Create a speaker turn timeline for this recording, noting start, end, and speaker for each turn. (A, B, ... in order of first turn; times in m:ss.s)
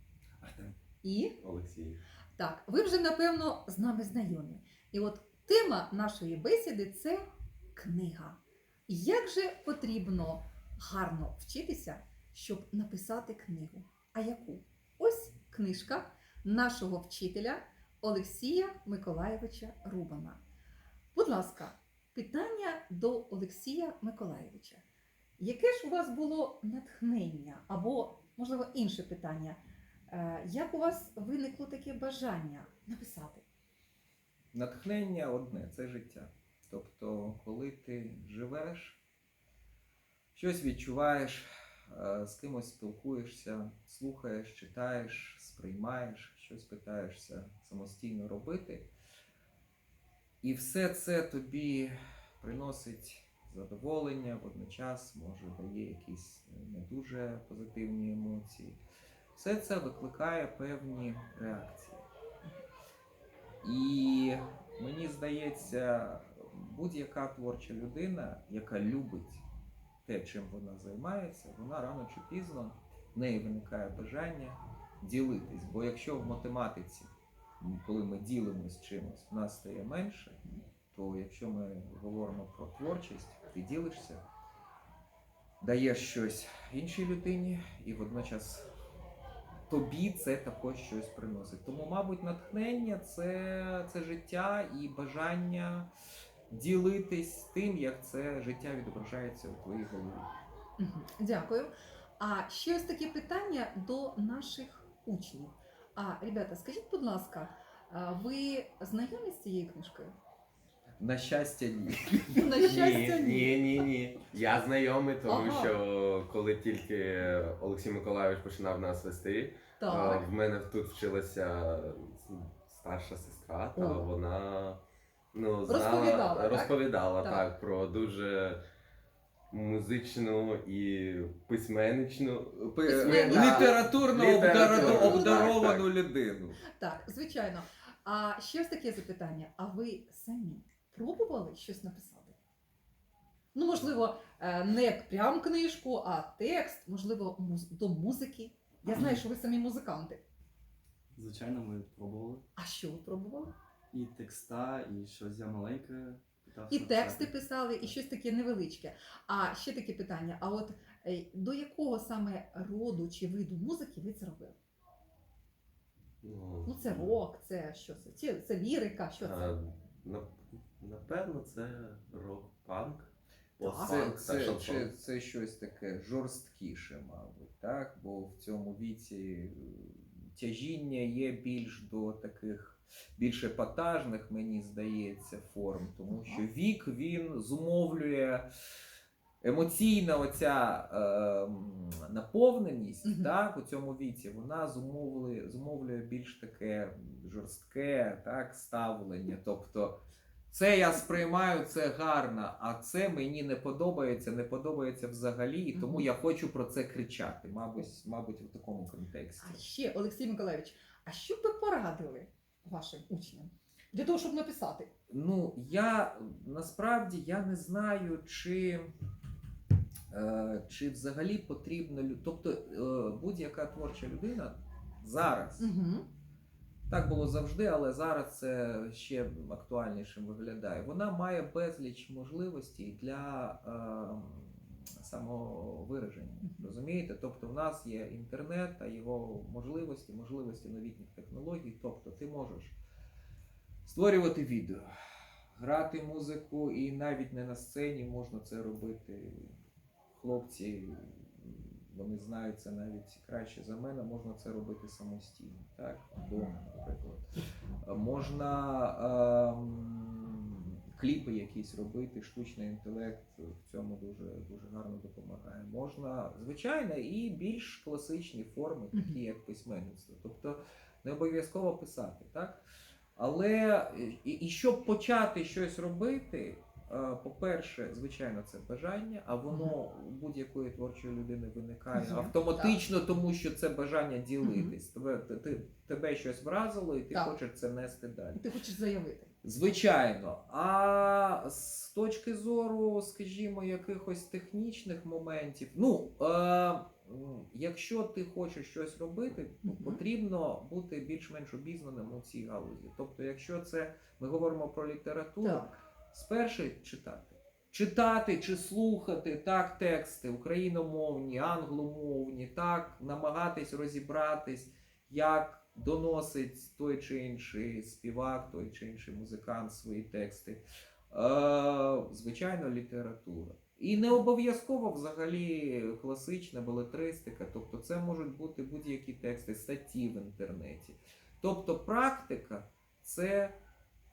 0:00.4-0:00.8 A
0:01.0-0:01.4 B
0:01.4-0:02.0 C
0:02.4-0:20.4 B
0:21.1-0:24.8 B
0:25.4-0:33.4 B
0:34.5-0:39.0 D
0:40.4-0:48.9 D
0:50.4-0:58.8 D
0:59.4-1:02.0 D
1:03.6-1:09.4 D
1:10.0-1:20.4 D
1:20.9-1:24.2 D
1:25.6-1:28.6 D
1:29.7-1:35.9 D
1:36.5-1:40.3 D
1:40.8-1:50.2 B
1:51.0-1:52.6 D
1:52.4-1:53.6 B
1:52.6-2:04.8 C
1:55.3-1:55.8 B
1:59.8-2:00.3 B
2:03.8-2:04.1 B
2:05.3-2:08.6 C
2:05.7-2:07.4 B
2:09.5-2:15.9 C
2:12.5-2:16.6 D
2:12.9-2:13.9 B
2:14.5-2:15.6 B
2:16.8-2:22.4 B
2:23.5-2:30.2 B
2:28.9-2:29.2 A
2:31.1-2:32.4 A
2:32.6-2:33.5 B
2:33.9-2:37.3 A
2:36.7-2:44.6 B
2:46.2-2:47.2 C
2:46.7-2:49.6 B
2:49.2-2:54.9 C
2:53.6-2:54.0 B
2:53.8-3:08.5 D
3:06.1-3:06.4 B
3:09.4-3:20.0 D
3:13.0-3:13.3 B
3:20.5-3:29.6 D
3:25.7-3:26.1 B
3:29.4-3:34.9 B
3:35.1-3:38.9 D
3:40.1-3:45.7 D
3:45.6-3:46.1 B
3:46.9-4:02.8 D
3:56.4-3:56.7 B
4:03.8-4:04.9 D
4:05.6-4:09.5 D
4:10.1-4:17.2 D
4:17.8-4:32.6 D
4:28.9-4:29.2 B
4:33.2-4:48.4 D
4:39.5-4:39.8 B
4:41.9-4:42.8 B
4:44.4-4:44.8 B
4:48.4-4:49.3 B
4:49.4-5:33.6 D
4:59.6-5:00.0 B
5:05.4-5:05.8 B